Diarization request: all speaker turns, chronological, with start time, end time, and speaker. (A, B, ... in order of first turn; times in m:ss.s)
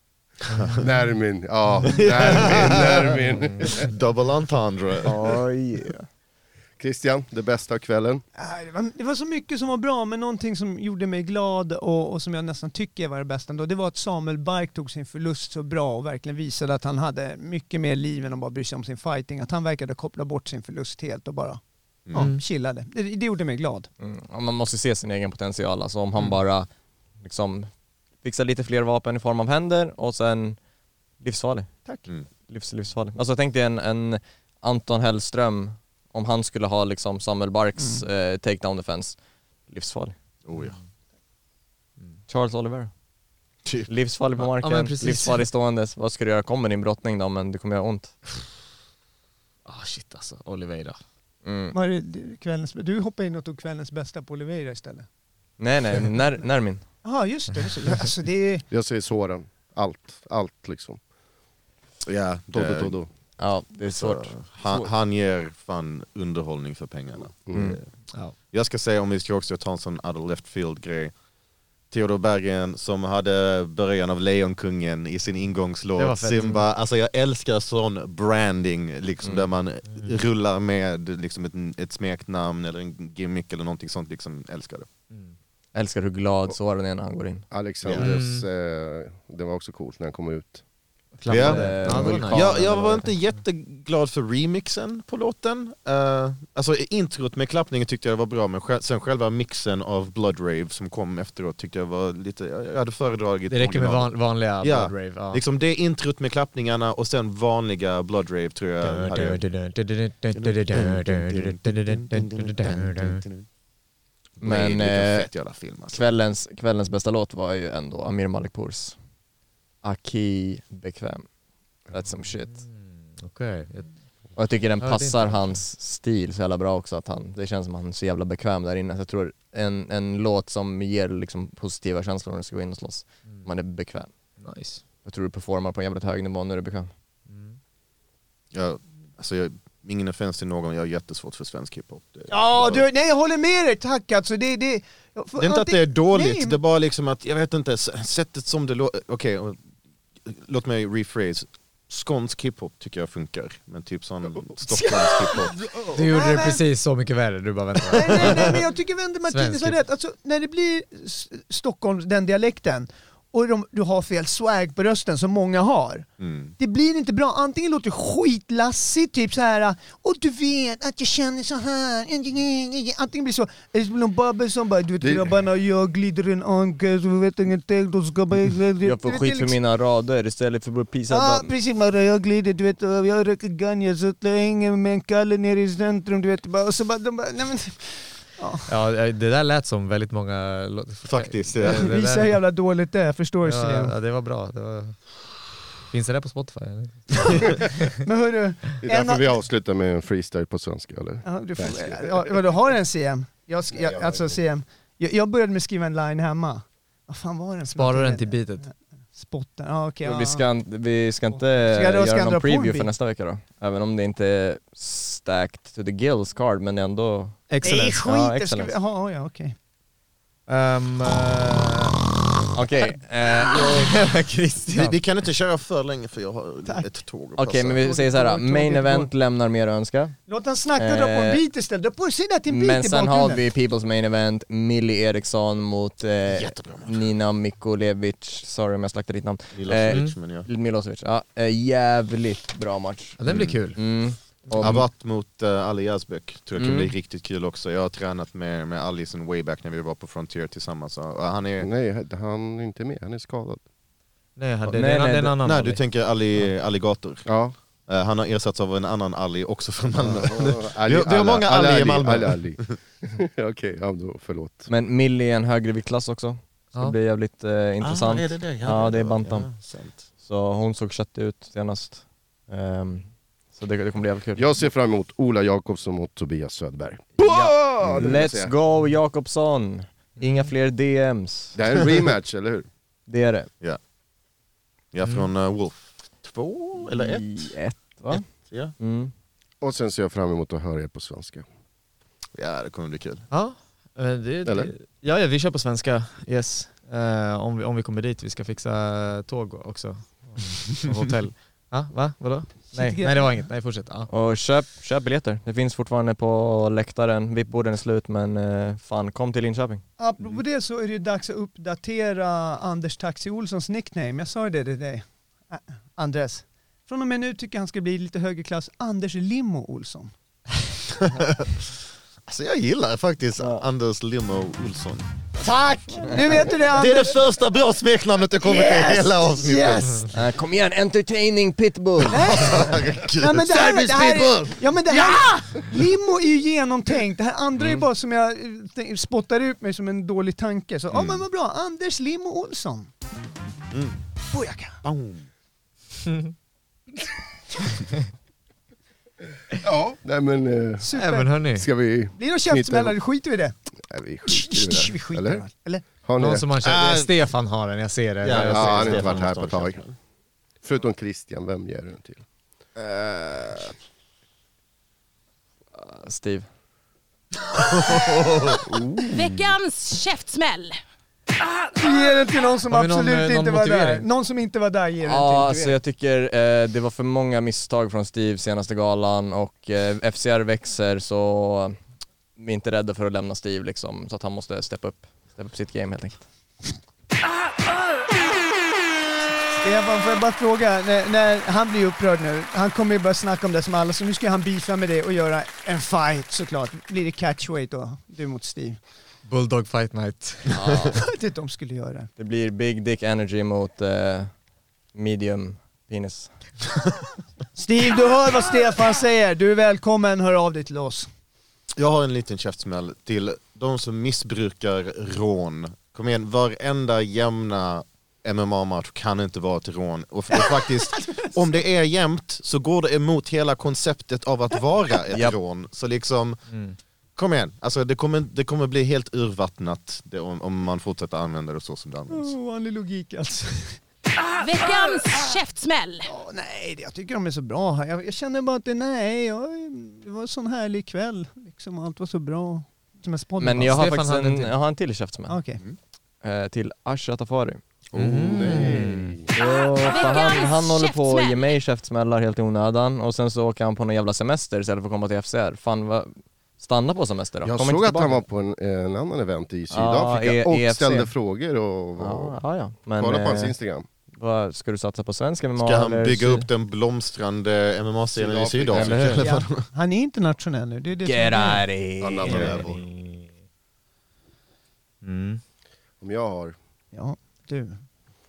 0:00.8-0:03.9 A
0:01.8-0:05.2 B
0:05.0-0:06.1 C
0:06.8-0:08.2 A
0:08.4-0:21.6 D
0:22.1-0:23.9 D
0:22.2-0:22.4 E
0:24.0-0:26.7 C
0:27.2-0:27.7 C
0:28.2-0:30.6 C
0:31.2-0:31.9 C
0:32.5-0:39.2 C
0:37.8-0:38.0 D
0:39.7-0:40.2 C
0:40.4-0:40.8 B
0:42.3-0:42.9 C
0:43.9-0:48.2 C
0:44.6-0:45.5 E
0:49.6-0:51.0 E
0:51.4-0:51.8 C
0:51.7-0:55.1 D
0:55.6-0:56.8 C
0:57.0-0:58.6 D
0:58.7-1:01.0 A
1:02.1-1:03.0 B
1:02.5-1:03.1 A
1:03.4-1:04.9 C
1:03.9-1:07.9 B
1:07.5-1:07.8 A
1:07.5-1:07.8 C
1:08.5-1:11.1 B
1:11.9-1:24.9 B
1:16.0-1:16.7 E
1:25.7-1:27.4 C
1:27.5-1:30.6 A
1:27.9-1:28.1 B
1:28.0-1:28.5 E
1:31.2-1:32.6 E
1:31.3-1:49.4 B
1:31.3-1:33.1 C
1:43.5-1:45.4 E
1:48.8-1:53.2 E
1:50.4-1:53.5 B
1:54.4-1:56.0 B
1:54.4-1:55.3 C
1:55.9-1:59.0 C
1:59.8-2:01.3 C
2:01.9-2:02.6 C
2:02.2-2:03.9 E
2:04.4-2:14.1 C
2:04.8-2:05.6 E
2:14.4-2:14.8 E
2:15.0-2:16.9 C
2:17.3-2:17.6 E
2:18.5-2:22.8 B
2:22.3-2:26.6 D
2:25.4-2:29.6 B
2:30.3-2:35.8 B
2:34.7-2:35.5 D
2:35.9-2:38.5 E
2:36.0-2:36.6 D
2:37.9-2:46.1 D
2:39.3-2:39.8 E
2:46.2-2:46.6 B
2:46.6-2:59.6 D
2:55.0-2:55.3 A
2:58.8-3:01.5 C
3:01.1-3:08.7 D
3:08.7-3:12.4 E
3:11.0-3:11.9 B
3:11.6-3:13.9 D
3:13.4-3:15.0 E
3:15.9-3:17.9 E
3:18.0-3:19.3 D
3:18.8-3:22.3 A
3:21.2-3:30.4 D
3:23.8-3:24.3 A
3:27.7-3:28.7 E
3:30.0-3:38.8 C
3:31.3-3:32.9 D
3:37.5-3:38.0 E
3:37.6-3:39.6 D
3:40.5-3:42.1 E
3:42.5-3:43.9 C
3:43.5-3:45.0 E
3:44.7-3:47.9 B
3:47.4-3:50.2 C
3:47.9-3:49.1 D
3:50.3-3:53.4 D
3:50.8-3:51.4 C
3:52.5-4:03.2 C
3:56.3-3:57.0 B
3:59.5-4:00.5 B
3:59.9-4:00.2 E
4:03.2-4:03.8 E
4:03.3-4:03.6 B
4:03.7-4:04.8 C
4:04.5-4:04.8 E
4:04.6-4:11.7 B
4:06.6-4:06.9 C
4:11.6-4:13.6 A
4:14.4-4:15.8 E
4:14.7-4:15.4 C
4:15.4-4:17.3 B
4:17.3-4:17.5 A
4:17.9-4:22.8 B
4:19.9-4:24.7 A
4:24.7-4:29.6 C
4:27.8-4:30.0 B
4:30.2-4:34.6 C
4:34.4-4:38.5 A
4:37.2-4:41.6 C
4:40.2-4:40.5 E
4:41.6-4:42.7 A
4:43.1-4:43.5 C
4:44.9-4:47.5 B
4:46.9-4:48.3 C
4:48.1-4:48.7 B
4:48.8-4:49.1 C
4:49.6-4:51.4 A
4:52.4-4:53.2 B
4:53.3-5:04.1 E
4:54.4-4:54.7 A
5:02.7-5:03.1 C
5:02.7-5:03.3 D
5:04.1-5:09.8 C
5:10.0-5:20.1 D
5:20.9-5:21.7 B
5:22.3-5:25.0 B
5:23.4-5:23.7 C
5:25.5-5:27.2 D
5:26.6-5:30.1 B
5:28.4-5:30.0 D
5:30.1-5:32.6 C
5:32.1-5:42.9 D
5:32.2-5:33.8 B
5:37.6-5:37.8 C
5:40.9-5:41.2 B
5:43.7-5:44.0 B
5:44.3-5:44.8 D
5:44.8-5:45.3 B
5:46.1-5:46.3 E
5:49.6-5:50.9 A
5:50.8-5:51.3 D
5:50.9-5:51.7 E
5:51.5-5:53.0 A
5:52.2-5:53.5 D
5:53.9-5:56.5 A
5:54.3-5:55.9 D
5:56.2-5:59.2 E
5:56.6-5:57.1 B
5:58.2-6:00.0 B
5:58.3-5:59.8 A
6:00.6-6:02.2 A
6:02.8-6:03.7 C
6:05.8-6:06.5 C
6:07.5-6:08.8 B
6:08.7-6:09.3 A
6:09.1-6:10.8 F
6:11.8-6:15.8 D
6:12.7-6:14.1 E
6:15.0-6:21.8 C
6:22.4-6:26.2 C
6:29.6-6:38.8 D
6:39.3-6:40.6 E
6:40.5-6:41.0 C
6:40.5-6:40.8 B
6:40.9-6:42.1 D
6:42.2-6:44.3 C
6:44.9-6:46.4 C
6:47.6-6:51.1 D
6:51.8-7:06.4 B
7:01.0-7:01.3 D
7:05.1-7:05.4 C
7:06.5-7:06.8 E
7:07.2-7:12.3 B
7:12.1-7:13.8 D
7:14.4-7:16.1 F
7:16.1-7:23.8 D
7:23.4-7:25.4 C
7:23.7-7:24.5 E
7:25.3-7:25.6 D
7:26.2-7:27.6 C
7:27.9-7:29.2 E
7:28.0-7:29.3 A
7:28.3-7:38.2 C
7:29.4-7:31.6 F
7:37.4-7:42.4 A
7:39.7-7:41.1 C
7:42.0-7:43.6 C
7:43.0-7:43.9 A
7:44.1-7:46.5 C
7:45.6-7:49.7 B
7:48.2-7:49.3 A
7:48.7-7:49.2 C
7:49.2-7:51.7 D
7:51.0-7:52.6 C
7:52.0-7:52.7 A
7:52.2-7:52.8 B
7:52.3-7:53.3 E
7:55.0-7:55.4 E
7:56.0-7:56.6 A
7:56.9-7:57.8 D